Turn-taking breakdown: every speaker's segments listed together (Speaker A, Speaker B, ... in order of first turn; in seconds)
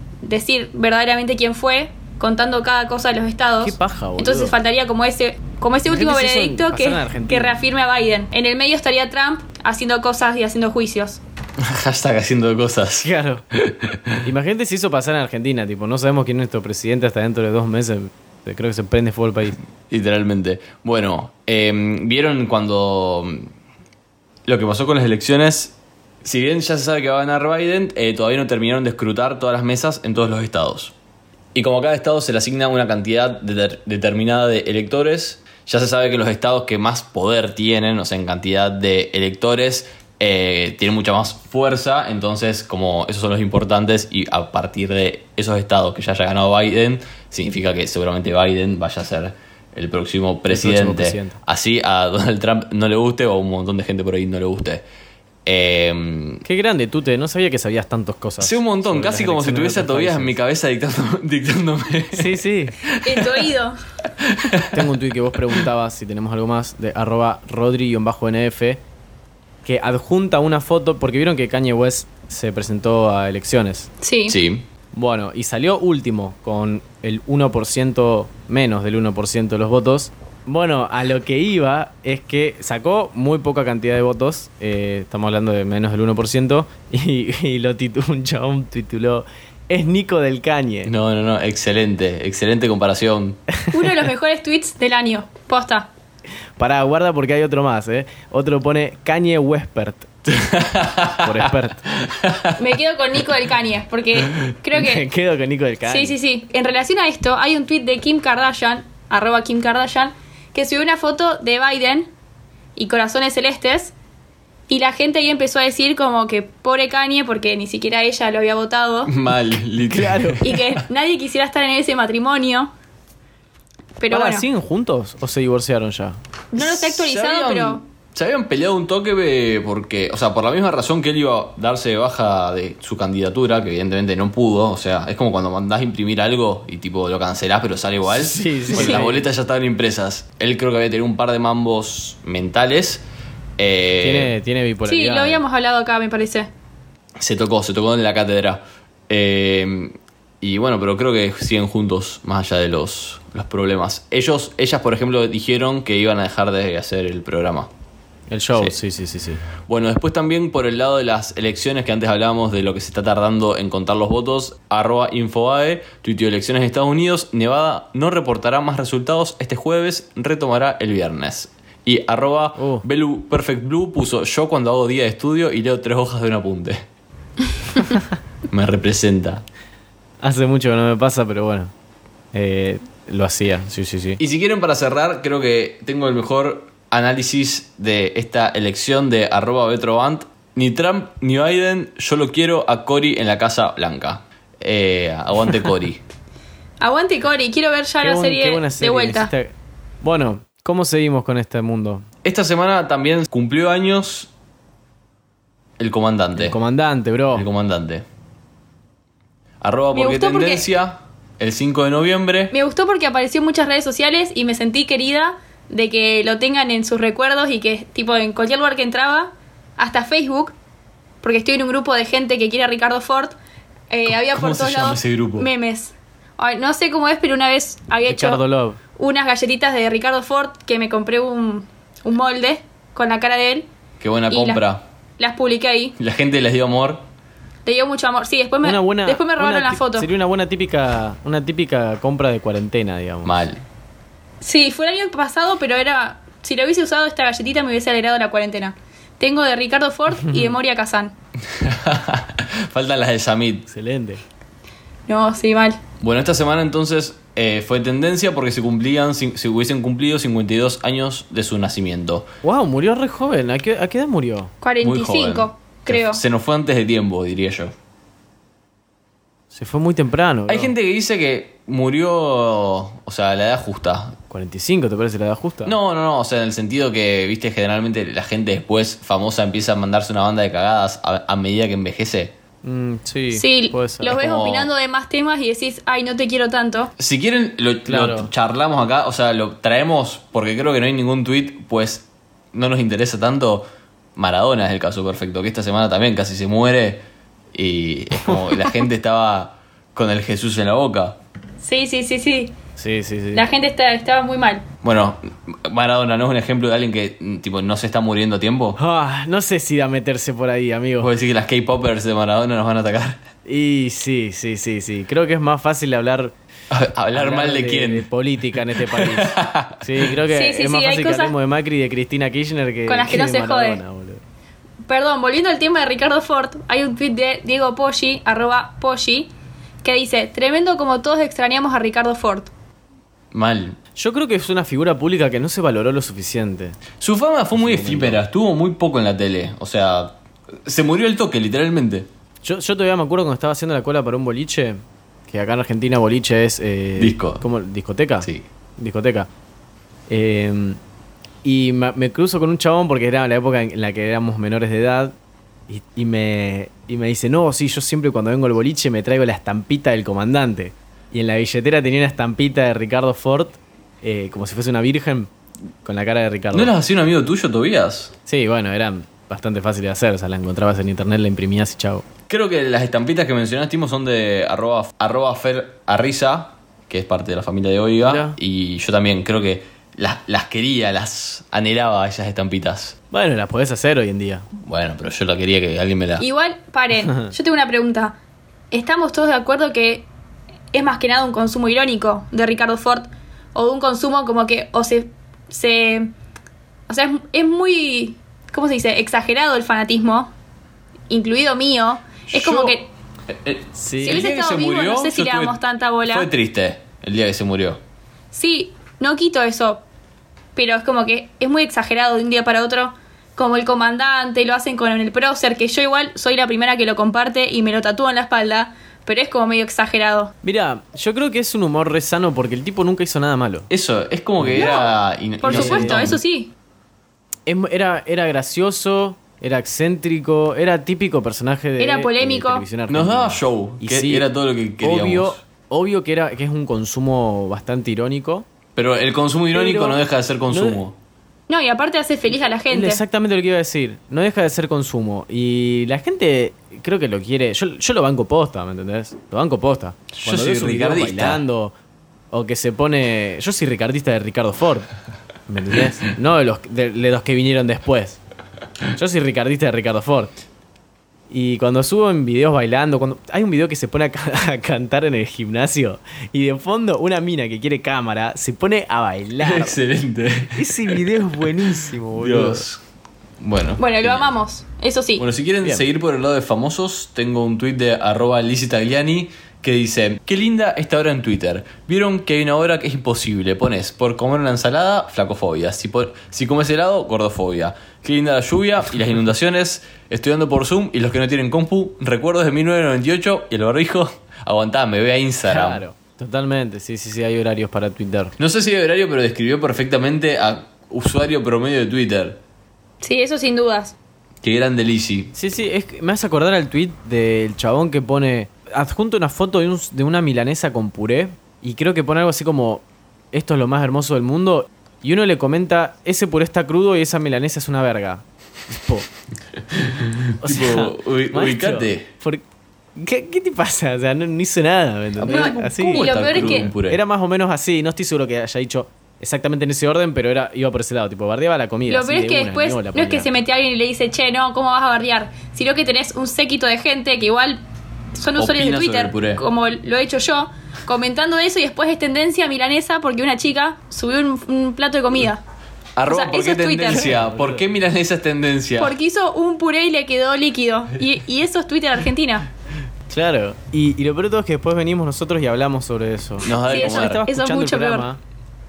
Speaker A: 0.2-11.2, 63.0-63.8, 74.0-74.4, 93.7-95.9, 102.6-105.0, 105.8-112.1, 112.8-113.9, 114.7-119.1, 120.4-122.7, 124.0-124.5, 126.5-127.8, 144.9-146.5, 196.8-199.3, 209.9-210.7, 212.5-220.5, 221.2-223.3, 223.9-228.4, 229.0-233.7, 234.3-234.6, 235.2-236.0, 237.7-240.1, 244.4-251.1, 255.1-255.8, 264.6-266.2, 283.3-286.9, 301.6-302.5, 303.3-304.7, 320.3-321.3, 322.9-323.8, 324.9-329.3, 329.8-332.5, 386.2-388.2, 388.7-390.1, 390.7-396.1, 396.9-400.3, 401.1-402.9, 404.0-406.3, 408.3-409.8, 410.6-420.3, 424.6-426.5, 431.8-432.6, 441.5-443.0, 473.8-475.3, 503.0-503.9, 525.2-526.7, 531.9-537.6, 538.1-545.4, 546.1-547.1, 548.8-552.5, 556.7-558.1
Speaker B: 3.6-4.6, 5.9-7.5, 13.0-13.4, 14.2-19.6, 50.5-51.4, 56.5-60.4, 62.1-62.8, 64.7-68.8, 69.7-73.9, 74.9-90.9, 96.6-100.1, 101.2-101.9, 104.7-106.2, 119.9-120.5, 124.1-126.2, 138.1-139.2, 144.0-145.4, 158.3-159.4, 172.6-172.8, 180.2-181.7, 182.3-184.2, 198.0-202.1, 206.4-207.5, 228.1-228.8, 238.6-243.4, 250.2-250.6, 253.7-254.2, 262.4-264.5, 269.5-270.7, 274.3-275.8, 282.6-284.1, 287.9-288.3, 302.8-303.5, 308.8-311.1, 313.5-316.4, 317.1-324.2, 334.0-336.8, 337.5-338.2, 342.4-349.3, 350.1-350.8, 351.4-355.2, 355.7-365.3, 365.8-366.7, 368.3-372.0, 378.0-378.4, 383.1-384.5, 403.8-404.2, 420.4-423.7, 424.4-424.7, 425.4-426.1, 427.5-434.3, 434.8-438.5, 439.5-440.8, 442.7-451.7, 452.3-454.9, 455.5-458.2, 458.9-460.4, 461.3-469.8, 470.5-472.7, 495.5-498.4, 505.3-519.1, 520.4-522.4, 523.0-533.3, 546.9-547.6, 553.1-558.2
Speaker C: 11.6-14.2, 19.9-23.5, 24.5-30.9, 31.5-54.9, 55.5-56.4, 58.4-63.5, 64.2-64.9, 74.3-74.7, 90.8-93.4, 100.3-102.6, 119.1-120.8, 126.6-143.0, 143.6-144.3, 147.2-157.7, 159.6-176.8, 178.5-179.4, 184.2-196.0, 202.2-204.3, 205.8-206.6, 207.3-208.1, 209.6-212.5, 224.1-225.5, 234.0-234.8, 236.0-237.0, 243.2-243.6, 251.4-253.7, 256.0-262.3, 264.8-267.7, 270.5-274.2, 275.6-282.3, 284.0-284.7, 287.0-301.2, 304.8-308.8, 311.0-313.2, 316.7-318.1, 318.8-320.1, 333.3-333.8, 337.0-342.1, 347.0-347.4, 366.5-368.1, 372.3-382.9, 384.6-386.3, 402.3-402.8, 403.3-407.8, 423.7-426.2, 432.9-435.4, 438.8-441.0, 450.1-451.4, 469.4-472.8, 473.4-474.3, 475.2-495.8, 498.4-502.4, 504.4-505.3, 519.7-522.1, 525.2-527.0, 538.4-539.4, 546.0-549.0, 556.4-557.2